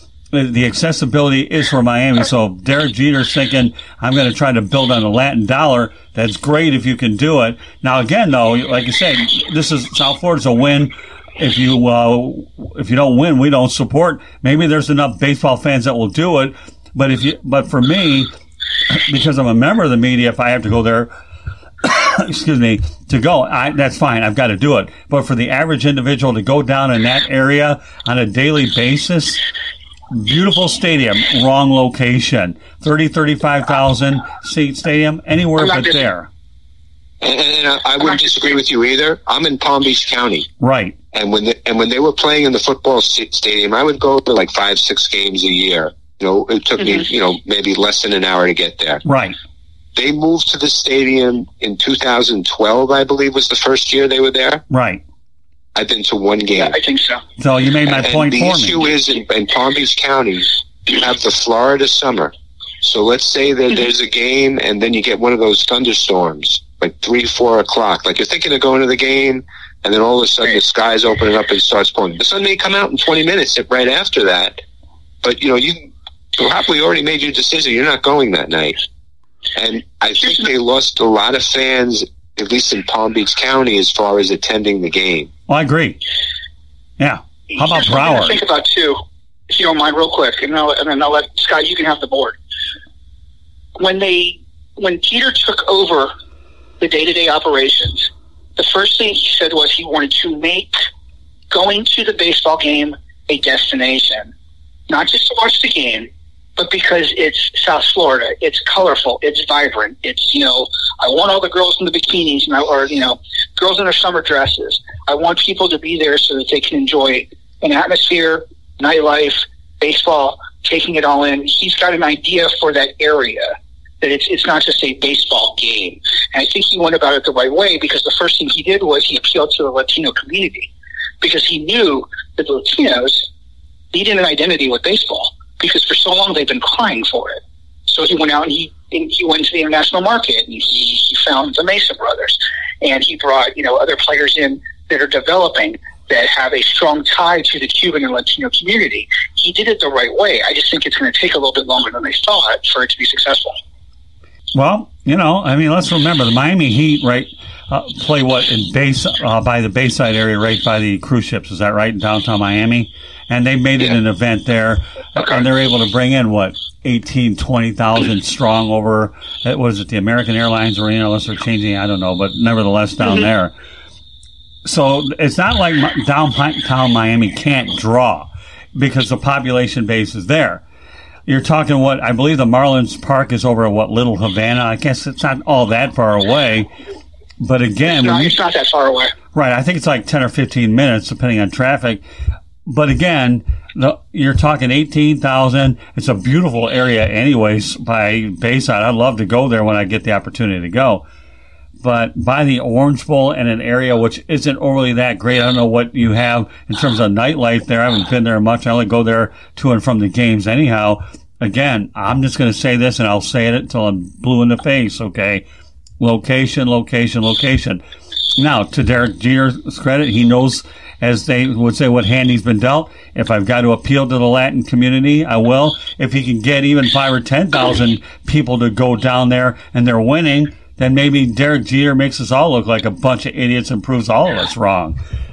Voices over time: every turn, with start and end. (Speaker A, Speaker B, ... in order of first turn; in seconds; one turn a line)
Speaker A: 0.3-18.3
Speaker A: 18.9-21.1
Speaker A: 21.8-29.4
Speaker A: 30.1-36.3
Speaker B: 35.6-36.1
Speaker C: 37.2-40.5
Speaker A: 40.6-41.0
Speaker C: 41.1-49.0
Speaker A: 49.0-49.4
Speaker C: 50.0-54.6
Speaker A: 54.7-55.0
Speaker C: 55.8-56.8
Speaker B: 56.6-57.2
Speaker A: 57.4-58.8
Speaker C: 57.9-74.6
Speaker C: 75.2-78.8
Speaker C: 79.5-85.3
Speaker A: 85.5-86.0
Speaker A: 87.0-88.4
Speaker B: 87.5-92.4
Speaker B: 93.8-96.1
Speaker B: 96.8-100.8
Speaker B: 101.5-104.3
Speaker B: 104.9-133.3
Speaker B: 133.9-153.6
Speaker A: 154.5-173.5
Speaker A: 174.7-180.6
Speaker A: 181.3-186.7
Speaker A: 187.4-188.4
Speaker B: 187.8-189.1
Speaker A: 189.3-192.0
Speaker A: 192.7-201.0
Speaker A: 201.8-215.4
Speaker A: 216.0-217.8
Speaker A: 218.4-235.0